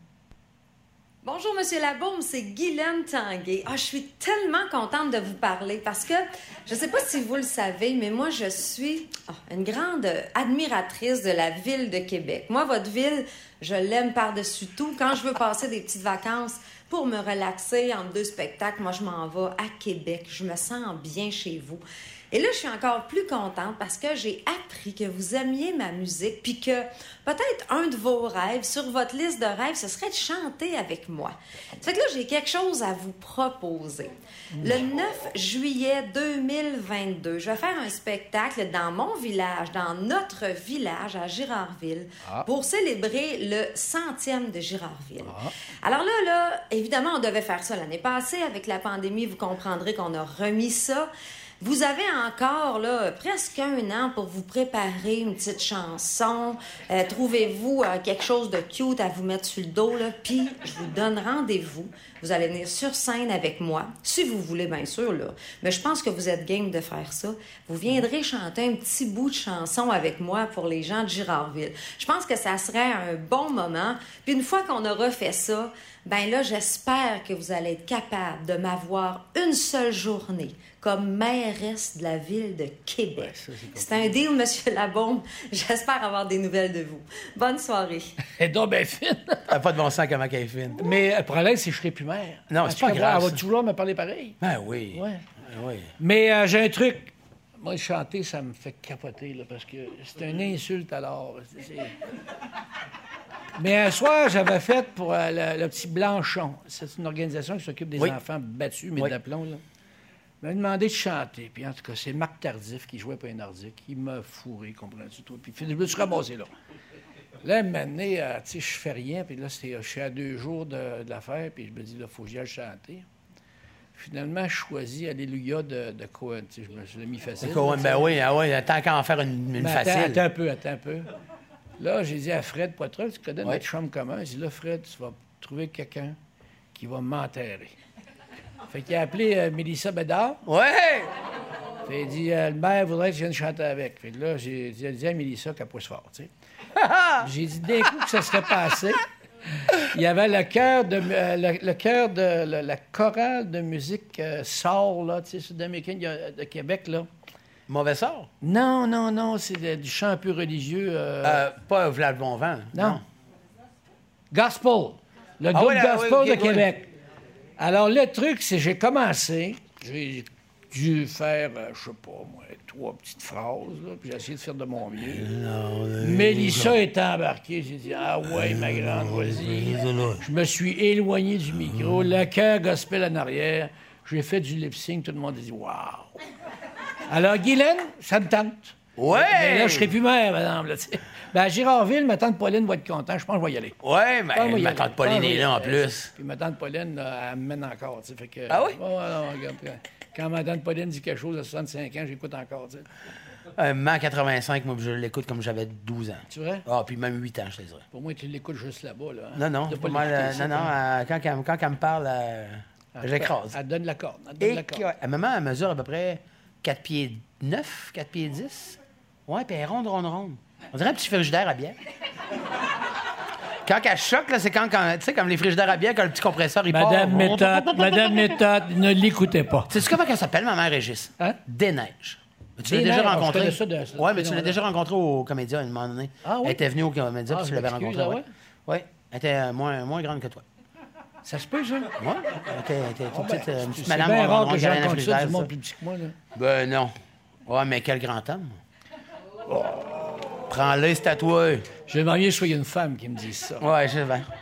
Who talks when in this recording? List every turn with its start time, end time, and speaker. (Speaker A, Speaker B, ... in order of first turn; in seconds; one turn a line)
Speaker A: 1.2-88.2
Speaker B: 34.5-34.8
Speaker B: 45.2-45.5
Speaker B: 83.2-84.2
Speaker B: 88.4-89.5
Speaker C: 89.5-90.8
Speaker B: 90.8-94.4
Speaker C: 92.5-93.4
Speaker C: 94.4-95.9
Speaker B: 94.9-95.2
Speaker B: 96.0-101.9
Speaker B: 103.6-109.6
Speaker B: 110.4-116.5
Speaker B: 117.4-123.1
Speaker B: 124.0-128.1
Speaker C: 127.4-130.2
Speaker B: 129.6-131.1
Speaker B: 131.8-136.2
Speaker B: 136.7-137.8
Speaker B: 138.7-140.4
Speaker C: 140.5-141.1
Speaker B: 141.9-146.3
Speaker C: 146.8-147.3
Speaker B: 147.2-149.1
Speaker B: 149.7-157.1
Speaker C: 157.7-158.3
Speaker B: 158.4-161.4
Speaker C: 161.2-163.0
Speaker B: 162.7-163.0
Speaker B: 164.3-166.9
Speaker C: 165.5-166.7
Speaker B: 167.6-175.3
Speaker C: 175.0-176.8
Speaker B: 176.0-186.2
Speaker C: 178.3-180.2
Speaker B: 187.1-193.8
Speaker C: 189.0-189.9
Speaker C: 193.8-196.1
Speaker B: 194.3-202.9
Speaker C: 198.5-198.8
Speaker C: 203.6-207.8
Speaker B: 206.3-206.7
Speaker B: 207.9-210.7
Speaker C: 209.3-213.6
Speaker B: 213.0-214.9
Speaker C: 214.4-221.8
Speaker C: 223.7-228.4
Speaker B: 226.7-229.8
Speaker C: 229.7-240.4
Speaker B: 232.7-234.6
Speaker B: 236.2-236.6
Speaker B: 237.3-238.3
Speaker B: 241.2-242.0
Speaker C: 242.0-245.5
Speaker B: 243.1-246.2
Speaker C: 246.3-246.9
Speaker C: 247.5-248.6
Speaker B: 249.5-250.2
Speaker C: 250.5-251.7
Speaker B: 251.9-253.7
Speaker C: 253.6-254.3